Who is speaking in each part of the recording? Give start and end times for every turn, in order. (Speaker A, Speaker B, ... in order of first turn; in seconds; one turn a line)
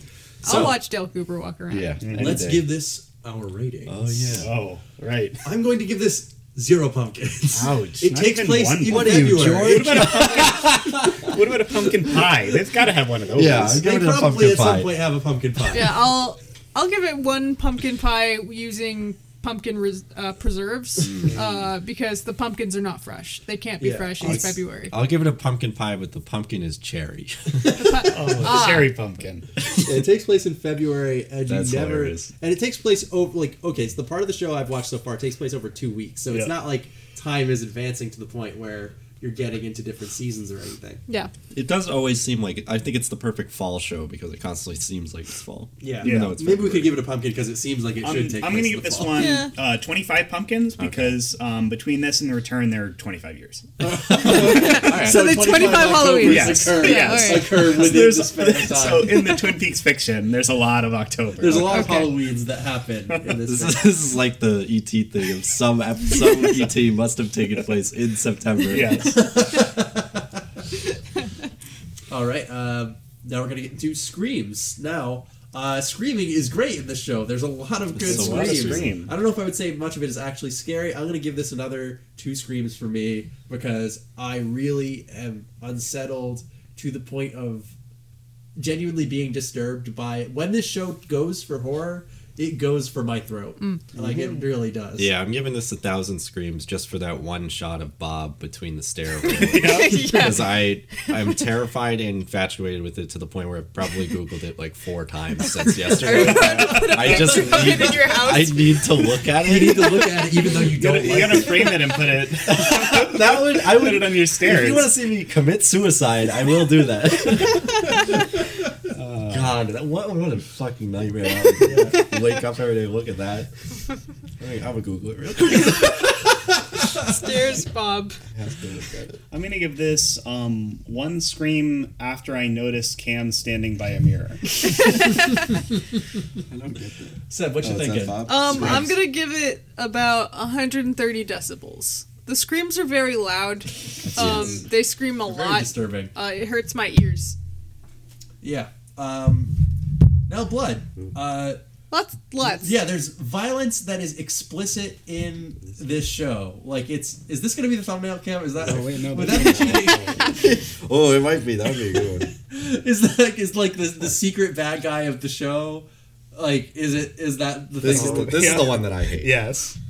Speaker A: 0.4-2.0
Speaker B: 0.4-0.8
Speaker C: 1.7-2.7
Speaker D: 2.0-2.5
Speaker B: 2.1-4.5
Speaker C: 3.9-4.5
Speaker D: 4.4-5.4
Speaker B: 5.4-10.8
Speaker C: 7.5-8.1
Speaker D: 8.0-13.9
Speaker C: 8.9-11.3
Speaker C: 13.3-15.0
Speaker B: 13.5-16.1
Speaker A: 15.7-24.9
Speaker C: 21.1-21.4
Speaker D: 21.3-21.6
Speaker B: 23.8-24.5
Speaker C: 24.2-28.3
Speaker A: 27.7-28.9
Speaker D: 28.1-29.5
Speaker B: 29.8-41.0
Speaker C: 31.5-32.3
Speaker D: 36.3-36.5
Speaker C: 41.5-47.0
Speaker B: 45.8-49.3
Speaker D: 46.0-46.4
Speaker D: 48.0-53.7
Speaker A: 49.1-49.5
Speaker C: 50.8-51.2
Speaker B: 53.8-59.3
Speaker A: 54.2-57.7
Speaker D: 54.2-55.2
Speaker D: 56.2-61.9
Speaker B: 61.4-64.0
Speaker A: 61.7-62.1
Speaker C: 63.5-69.1
Speaker D: 68.7-69.3
Speaker B: 68.9-70.4
Speaker B: 72.1-87.7
Speaker C: 78.0-79.0
Speaker D: 78.0-79.1
Speaker B: 88.6-95.2
Speaker D: 93.9-94.5
Speaker C: 95.0-111.8
Speaker A: 99.3-101.3
Speaker D: 99.4-100.1
Speaker A: 105.5-109.3
Speaker D: 106.0-107.6
Speaker B: 109.4-111.8
Speaker D: 110.7-115.0
Speaker C: 112.4-118.3
Speaker D: 118.9-119.6
Speaker C: 119.3-123.5
Speaker B: 121.6-122.1
Speaker C: 124.4-126.5
Speaker A: 127.1-128.2
Speaker C: 128.3-129.2
Speaker D: 129.3-134.4
Speaker A: 134.9-135.1
Speaker C: 136.5-139.0
Speaker B: 137.3-138.9
Speaker A: 138.3-147.4
Speaker D: 144.1-144.6
Speaker C: 144.1-144.6
Speaker B: 145.2-146.1
Speaker B: 148.4-149.6
Speaker B: 150.3-151.6
Speaker A: 151.9-152.8
Speaker B: 152.4-160.4
Speaker D: 158.6-160.3
Speaker C: 159.3-162.3
Speaker B: 162.5-168.6
Speaker C: 167.8-169.4
Speaker D: 167.9-169.8